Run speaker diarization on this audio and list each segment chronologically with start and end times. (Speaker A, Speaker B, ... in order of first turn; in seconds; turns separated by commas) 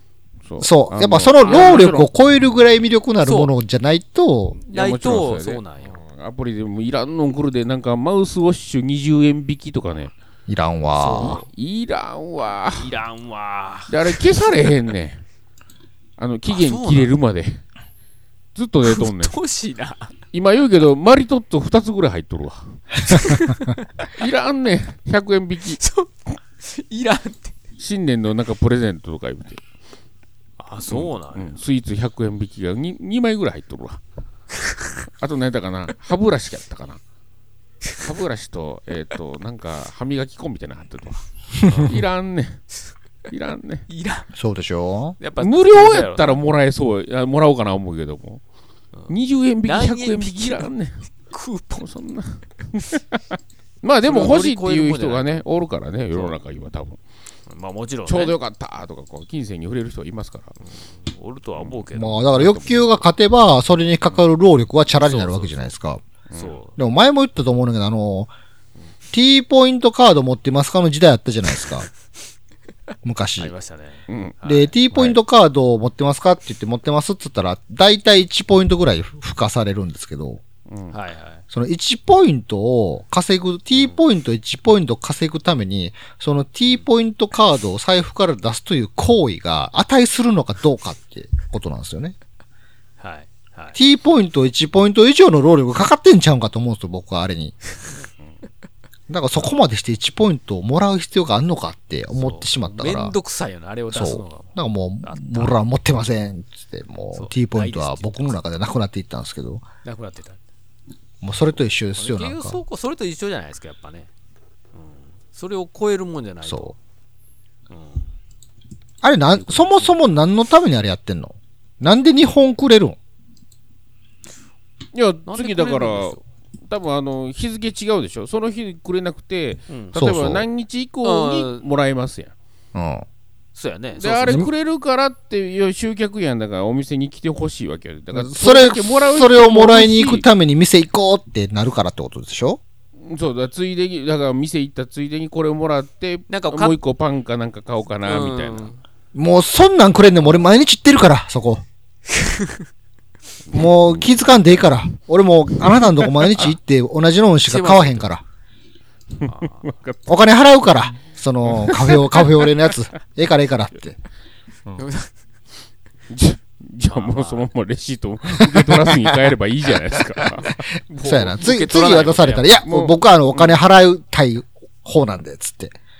Speaker A: 0.5-2.1, Speaker B: 0.6-4.6, Speaker C: 1.4-1.8, Speaker C: 3.2-3.5, Speaker C: 4.7-6.0, Speaker A: 4.7-10.1, Speaker B: 10.5-11.4, Speaker C: 10.9-11.5, Speaker A: 11.2-12.9, Speaker C: 12.8-14.1, Speaker A: 13.9-15.2, Speaker A: 16.2-17.6, Speaker C: 16.5-17.1, Speaker A: 18.5-19.3, Speaker C: 18.8-20.1, Speaker A: 20.3-22.8, Speaker C: 23.1-23.9, Speaker A: 24.0-25.8, Speaker C: 25.8-27.6, Speaker A: 27.8-29.6, Speaker C: 30.6-31.6, Speaker A: 30.9-34.0, Speaker A: 35.0-37.0, Speaker A: 38.0-42.6, Speaker C: 41.7-42.0, Speaker A: 43.3-43.9, Speaker C: 43.9-44.3, Speaker B: 44.3-45.2, Speaker C: 45.2-46.4, Speaker A: 45.4-48.4, Speaker C: 48.9-50.7, Speaker A: 49.1-51.0, Speaker C: 51.3-51.8, Speaker A: 51.8-53.0, Speaker A: 53.8-57.0, Speaker C: 54.0-55.5, Speaker C: 56.1-56.4, Speaker C: 57.5-58.4, Speaker A: 58.1-60.6, Speaker C: 60.7-62.3, Speaker A: 61.6-62.9, Speaker B: 61.9-66.0, Speaker C: 64.9-65.7, Speaker A: 66.3-66.6, Speaker C: 66.3-66.8, Speaker B: 66.8-68.3, Speaker B: 69.1-71.9, Speaker B: 73.0-73.5, Speaker C: 73.4-75.2, Speaker A: 74.1-74.4, Speaker B: 74.4-80.4, Speaker A: 80.7-80.9, Speaker C: 80.9-81.4, Speaker B: 81.5-92.1, Speaker C: 83.7-84.0, Speaker C: 93.0-93.8, Speaker B: 93.7-97.5, Speaker B: 99.1-103.1, Speaker C: 102.1-105.6, Speaker B: 103.9-109.6, Speaker C: 107.1-108.4, Speaker C: 109.8-110.4, Speaker B: 111.2-112.6, Speaker C: 111.9-114.1, Speaker C: 114.7-116.8, Speaker B: 116.4-116.7, Speaker C: 117.7-118.1, Speaker B: 119.0-123.0, Speaker C: 119.3-120.0, Speaker A: 124.9-126.2, Speaker C: 125.3-126.2, Speaker A: 126.7-132.3, Speaker C: 129.7-129.9, Speaker B: 129.9-130.5, Speaker C: 131.0-131.6, Speaker B: 132.7-133.1, Speaker C: 133.5-134.4, Speaker A: 134.0-140.3, Speaker B: 138.1-142.6, Speaker A: 143.0-148.7, Speaker C: 146.3-146.8, Speaker C: 148.0-148.8, Speaker B: 149.1-151.6, Speaker C: 152.2-152.6, Speaker A: 153.5-154.8, Speaker B: 153.5-158.2, Speaker C: 157.4-158.1, Speaker A: 159.2-160.2, Speaker C: 159.2-159.7, Speaker B: 160.1-164.0, Speaker A: 161.4-162.5, Speaker C: 164.7-165.1, Speaker A: 166.1-170.5, Speaker C: 166.9-167.5, Speaker C: 170.4-172.6, Speaker B: 171.0-175.7, Speaker A: 172.6-173.6